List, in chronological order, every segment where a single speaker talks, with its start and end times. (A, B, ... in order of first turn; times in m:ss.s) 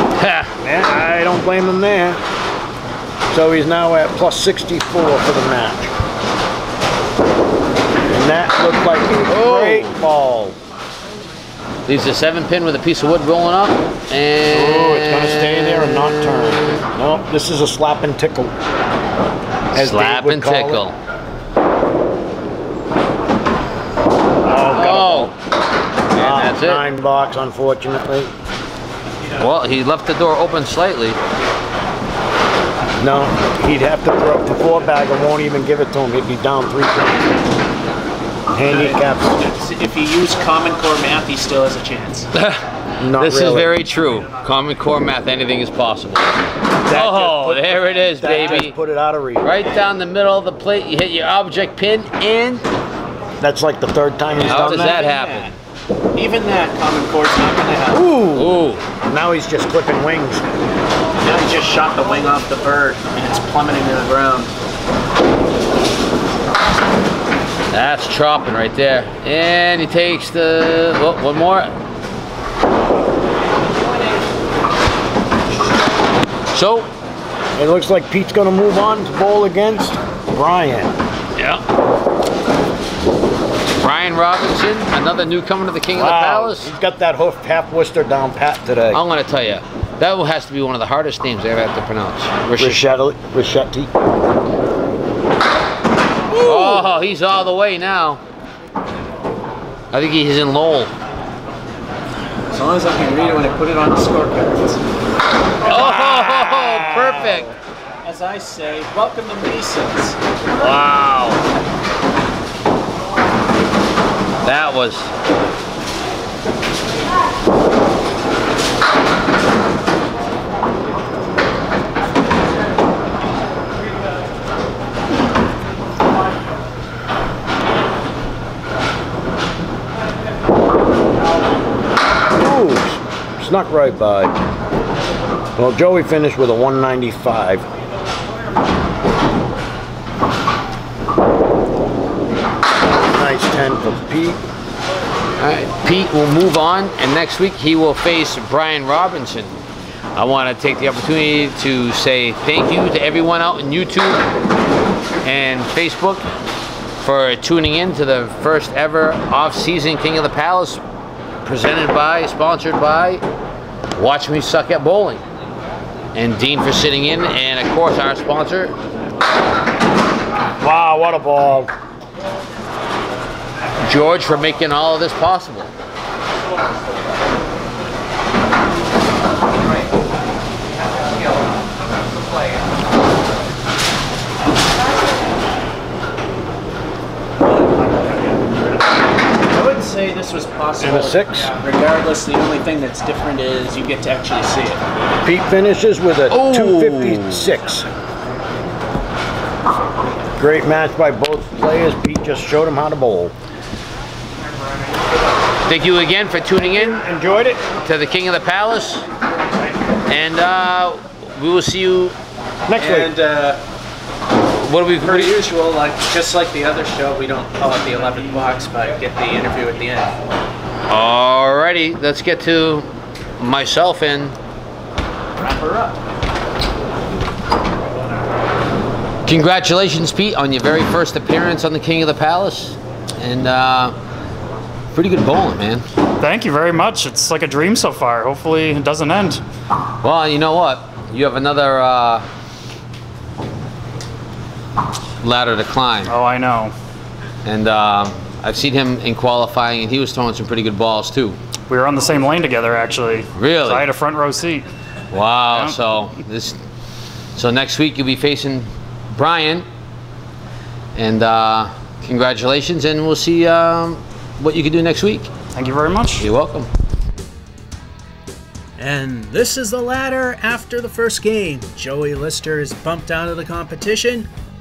0:00.2-0:00.5 A
0:00.6-0:02.2 B
0:03.3-0:05.9 B
0:08.1-0:10.6 B
0:09.3-0:10.0 A
0:11.9-0:16.8 A
0:14.5-0:18.5 B
0:19.7-0:20.8 B
0:19.8-0:21.0 A
0:24.4-0:25.3 B
0:24.7-0:25.3 A
0:26.1-0:26.9 A
0:26.1-0:28.3 B
0:29.4-0:31.2 A
0:33.0-0:37.3 B
0:38.5-0:39.4 B
0:38.6-0:42.3 C
0:42.3-0:46.4 A
0:43.0-0:43.7 B
0:46.8-0:49.5 B
0:46.9-0:48.8 A
0:49.4-0:52.7 A
0:53.4-0:55.0 B
0:54.3-0:55.5 C
0:54.4-0:55.6 A
0:56.2-0:58.2 C
0:57.9-1:00.4 B
0:58.3-0:58.8 A
1:01.2-1:04.5 C
1:07.7-1:11.7 A
1:16.5-1:16.9 A
1:17.6-1:20.9 B
1:21.4-1:21.6 A
1:23.8-1:26.7 A
1:25.9-1:29.0 B
1:28.9-1:32.8 A
1:32.6-1:33.9 B
1:36.4-1:36.8 B
1:36.4-1:38.2 A
1:39.9-1:40.9 A
1:42.5-1:44.8 C
1:45.7-1:47.5 A
1:45.8-1:47.4 B
1:48.0-1:50.2 C
1:50.6-1:51.4 A
1:54.4-1:55.1 A
2:12.3-2:14.4 B
2:15.6-2:17.7 B
2:22.9-2:24.4 B
2:25.4-2:29.6 A
2:30.2-2:34.2 A
2:35.2-2:36.3 A
2:37.0-2:40.8 A
2:41.4-2:43.2 A
2:43.9-2:45.2 A
2:46.2-2:48.8 A
2:50.6-2:51.7 B
2:53.8-2:55.7 A
3:09.5-3:14.8 C
3:10.8-3:11.5 B
3:15.2-3:17.9 B
3:16.3-3:17.5 A
3:20.4-3:23.3 B
3:25.7-3:27.0 A
3:26.8-3:27.6 B
3:27.8-3:29.0 A
3:30.1-3:32.2 A
3:32.7-3:33.1 B
3:32.8-3:33.6 C
3:34.6-3:35.4 A
3:35.0-3:40.1 C
3:40.9-3:44.4 A
3:45.4-3:46.0 C
3:49.3-3:54.0 A
3:54.9-3:55.9 A
3:56.2-3:59.4 D
4:00.0-4:02.3 A
4:05.2-4:06.2 A
4:06.1-4:06.7 D
4:07.4-4:11.4 A
4:11.7-4:14.7 D
4:13.3-4:13.9 A
4:15.1-4:16.6 A
4:15.5-4:15.8 D
4:17.4-4:19.7 A
4:21.0-4:25.3 A
4:25.5-4:26.3 D
4:26.2-4:26.7 A
4:28.8-4:34.3 C